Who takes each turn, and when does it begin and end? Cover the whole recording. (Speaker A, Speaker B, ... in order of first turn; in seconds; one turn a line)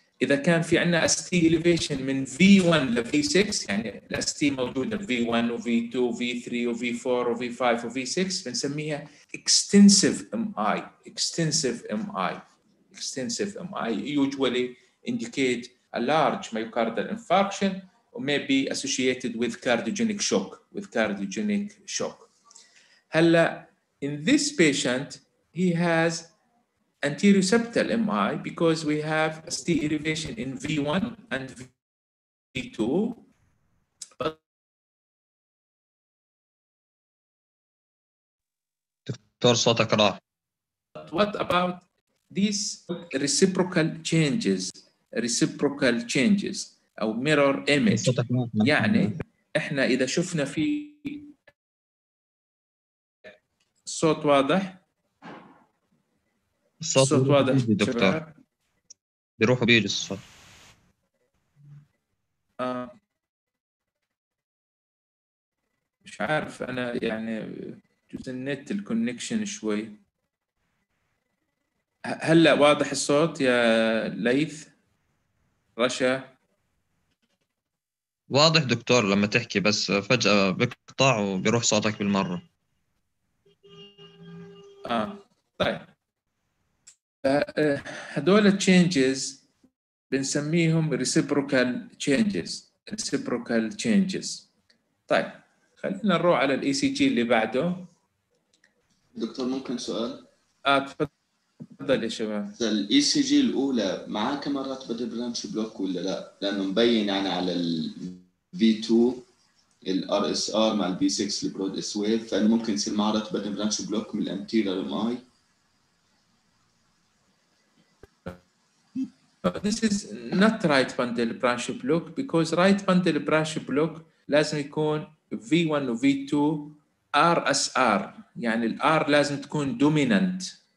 Speaker A: 0.2-22.3
Speaker A: 23.1-26.3
Speaker A: 27.0-31.7
Speaker A: 32.5-33.2
Speaker B: 39.1-40.2
Speaker A: 40.9-51.3
Speaker B: 47.9-49.1
Speaker A: 53.9-54.8
Speaker B: 56.8-58.2
Speaker A: 57.0-58.3
Speaker B: 59.4-60.2
Speaker A: 62.6-62.9
Speaker A: 66.0-70.0
Speaker A: 72.1-74.7
Speaker A: 75.8-76.3
Speaker B: 78.3-82.4
Speaker A: 84.8-85.9
Speaker A: 87.2-89.4
Speaker A: 90.1-94.5
Speaker A: 95.1-97.9
Speaker C: 99.1-100.2
Speaker A: 100.6-101.1
Speaker A: 101.8-102.5
Speaker C: 102.6-109.2
Speaker C: 109.8-115.2
Speaker A: 119.4-130.5